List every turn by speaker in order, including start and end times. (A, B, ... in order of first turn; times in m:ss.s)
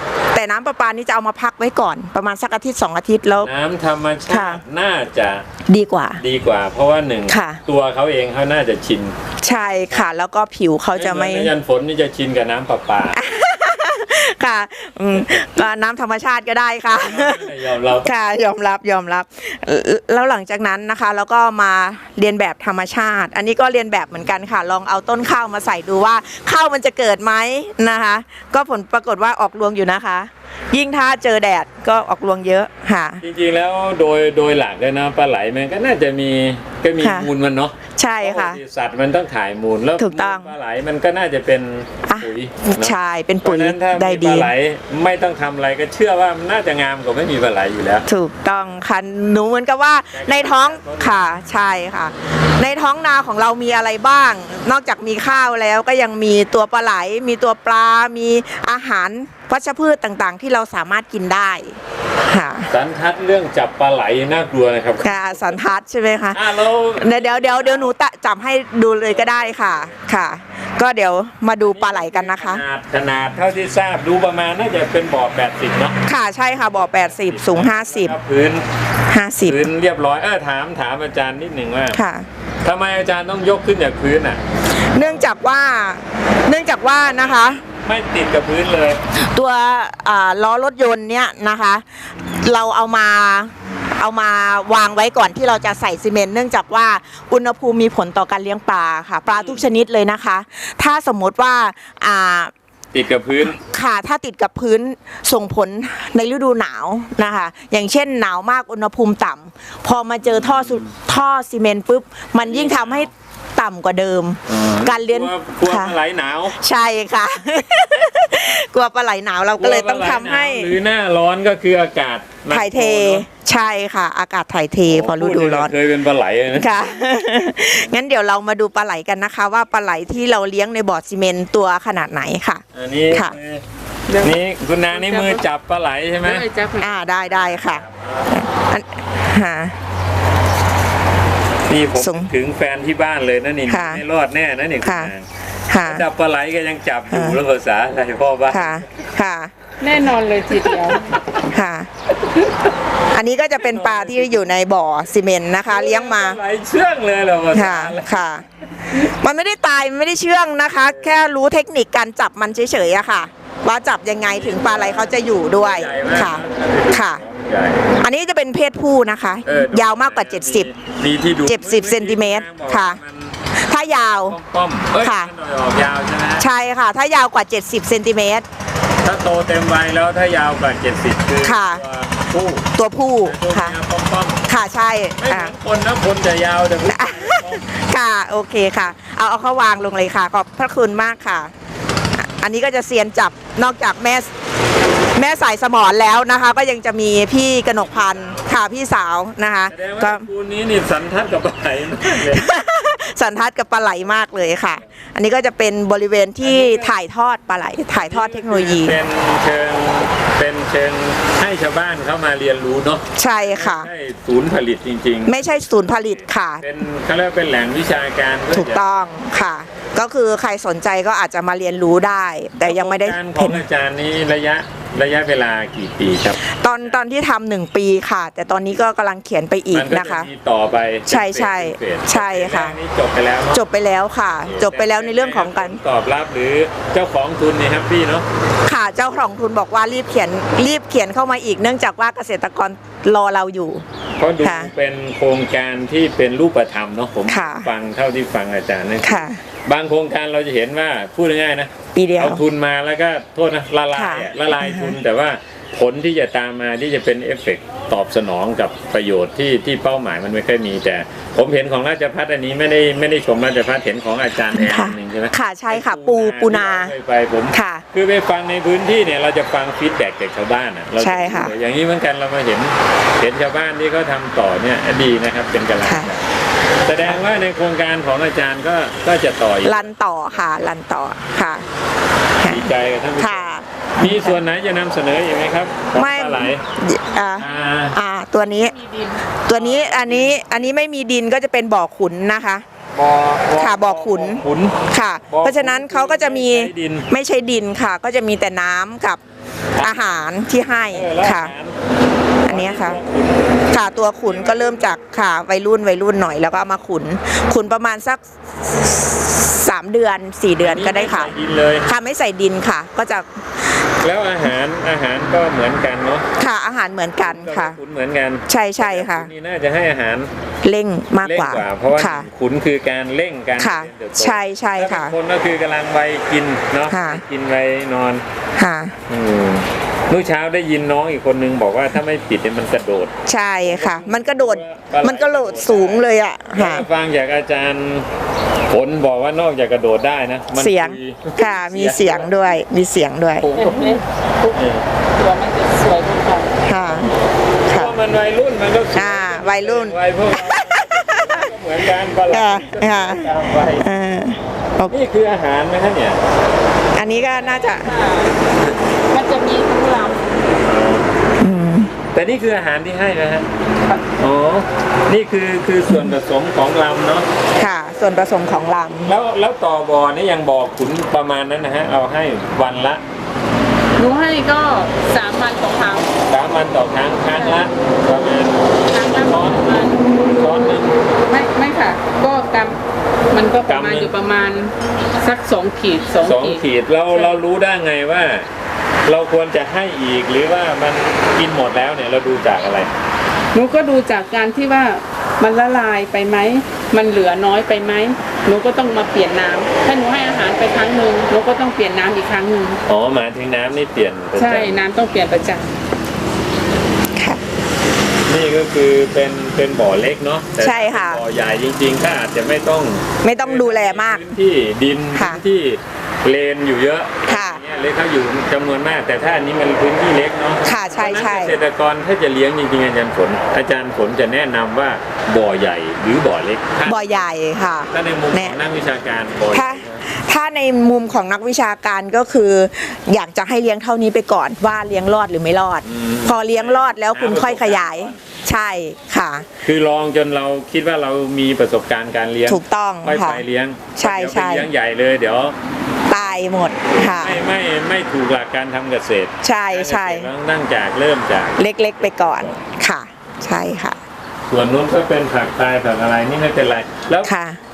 0:00.3-0:03.5 A
0:03.4-0:05.4 B
0:04.3-0:04.6 A
0:05.7-0:06.2 A
0:06.2-0:09.2 B
0:07.3-0:07.6 A
0:09.4-0:11.5 A
0:10.9-0:13.2 B
0:13.2-0:17.5 A
0:16.9-0:18.1 B
0:18.0-0:33.2 A
0:33.2-0:48.1 B
0:37.0-0:37.3 A
0:38.0-0:38.6 A
0:40.0-0:40.5 A
0:42.1-0:44.5 A
0:48.1-1:02.7 A
0:50.1-0:51.2 B
1:02.7-1:05.6 B
1:05.0-1:06.4 A
1:06.3-1:07.9 B
1:07.0-1:12.6 A
1:09.1-1:10.0 B
1:11.6-1:16.0 B
1:16.0-1:18.2 A
1:16.8-1:18.7 B
1:19.1-1:19.6 A
1:19.4-1:22.0 B
1:21.9-1:22.3 A
1:22.6-1:24.4 B
1:24.8-1:27.6 A
1:25.0-1:25.3 B
1:27.8-1:29.0 B
1:29.2-1:42.5 A
1:39.3-1:39.6 B
1:42.9-1:43.6 B
1:43.5-1:55.9 A
1:50.2-1:50.9 B
1:52.4-1:53.1 B
1:54.5-1:56.6 B
1:56.6-2:00.8 A
1:59.6-2:03.3 B
2:02.5-2:05.7 A
2:04.8-2:06.8 B
2:06.6-2:13.4 A
2:12.7-2:13.6 B
2:14.1-2:14.4 C
2:14.2-2:16.5 B
2:14.9-2:15.4 C
2:16.2-2:17.0 C
2:16.8-2:19.8 A
2:17.2-2:18.5 B
2:21.7-2:25.3 B
2:22.0-2:22.3 A
2:23.7-2:24.0 A
2:24.8-2:25.1 A
2:25.7-2:26.0 A
2:25.8-2:28.8 B
2:27.1-2:27.4 A
2:28.5-2:29.5 A
2:29.8-2:31.2 C
2:31.4-2:31.9 A
2:33.1-2:36.4 A
2:33.6-2:34.5 B
2:35.7-2:38.3 B
2:37.5-2:47.2 A
2:40.8-2:41.2 B
2:44.2-2:47.9 B
2:48.0-2:50.7 A
2:49.4-2:53.4 B
2:51.5-2:53.0 A
2:53.6-2:54.4 A
2:54.0-2:56.5 B
2:55.0-2:55.3 A
2:56.4-2:58.5 A
2:59.0-3:04.4 B
3:01.4-3:01.8 A
3:02.8-3:03.8 A
3:04.5-3:05.5 A
3:05.2-3:07.7 B
3:06.9-3:11.5 A
3:12.2-3:14.3 A
3:15.2-3:20.3 A
3:17.8-3:18.5 B
3:19.7-3:22.5 B
3:22.1-3:29.0 A
3:26.4-3:27.0 B
3:27.9-3:38.8 B
3:33.2-3:33.9 A
3:35.3-3:36.6 A
3:38.5-3:43.6 A
3:42.6-3:47.0 B
3:46.4-3:50.3 A
3:49.7-3:53.6 B
3:51.1-3:52.8 A
3:53.5-3:55.8 A
3:54.4-3:58.3 B
3:58.6-4:03.8 A
4:04.2-4:36.2 B
4:04.4-4:04.7 A
4:07.3-4:07.7 A
4:09.0-4:09.4 A
4:11.9-4:12.4 A
4:13.9-4:15.0 A
4:24.5-4:26.9 A
4:27.5-4:27.8 A
4:31.0-4:31.5 A
4:35.8-4:36.1 A
4:36.8-4:39.9 B
4:39.6-4:41.7 A
4:42.4-4:44.4 A
4:42.4-4:46.6 B
4:45.9-4:48.8 A
4:47.4-4:48.0 B
4:48.6-4:49.2 C
4:49.5-4:52.6 A
4:49.5-4:50.7 B
4:52.9-4:57.1 B
4:53.6-4:59.2 A
4:59.8-5:00.1 B
4:59.8-5:01.5 A
5:00.9-5:01.8 B
5:02.4-5:03.0 A
5:02.4-5:03.6 B
5:03.7-5:11.3 A
5:04.2-5:05.0 B
5:10.6-5:11.9 B
5:11.8-5:13.4 A
5:14.0-5:16.3 B
5:16.4-5:17.8 A
5:17.2-5:20.3 B
5:18.5-5:19.3 A
5:20.6-5:22.3 A
5:21.2-5:28.2 B
5:23.6-5:25.2 A
5:26.9-5:27.2 A
5:28.6-5:29.0 A
5:29.1-5:33.1 B
5:33.3-5:36.9 A
5:33.6-5:38.1 B
5:38.7-5:42.6 B
5:40.5-5:43.5 A
5:43.4-5:44.0 B
5:43.6-5:44.6 C
5:44.5-5:44.9 B
5:45.2-5:46.6 C
5:46.6-5:47.1 A
5:47.7-5:53.9 B
5:47.7-5:48.0 A
5:49.0-5:51.4 A
5:52.3-5:55.0 A
5:54.9-5:56.2 B
5:57.0-5:57.9 A
5:57.1-5:58.4 C
5:59.1-6:00.4 C
6:00.6-6:01.1 B
6:01.4-6:01.9 A
6:02.1-6:03.5 B
6:04.2-6:07.3 B
6:07.6-6:09.1 A
6:09.1-6:13.0 B
6:14.0-6:16.1 C
6:16.3-6:19.7 B
6:17.4-6:17.6 C
6:18.9-6:20.1 C
6:20.2-6:21.0 B
6:21.2-6:27.4 C
6:23.7-6:24.1 B
6:26.2-6:28.5 B
6:29.1-6:32.9 B
6:33.5-6:42.8 C
6:42.9-6:44.8 B
6:44.4-6:45.7 C
6:47.2-6:47.4 A
6:48.3-7:07.3 B
6:50.6-6:51.2 A
6:53.2-6:54.2 A
6:55.2-6:55.4 A
6:57.3-6:57.6 A
7:00.6-7:01.6 A
7:06.9-7:08.6 A
7:07.9-7:10.0 B
7:09.5-7:19.5 A
7:15.8-7:18.2 B
7:19.6-7:25.6 B
7:22.5-7:23.4 A
7:24.0-7:24.7 A
7:26.1-7:27.4 A
7:26.9-7:32.6 B
7:29.4-7:30.3 A
7:31.6-7:34.0 A
7:34.5-7:37.3 B
7:37.2-7:37.6 A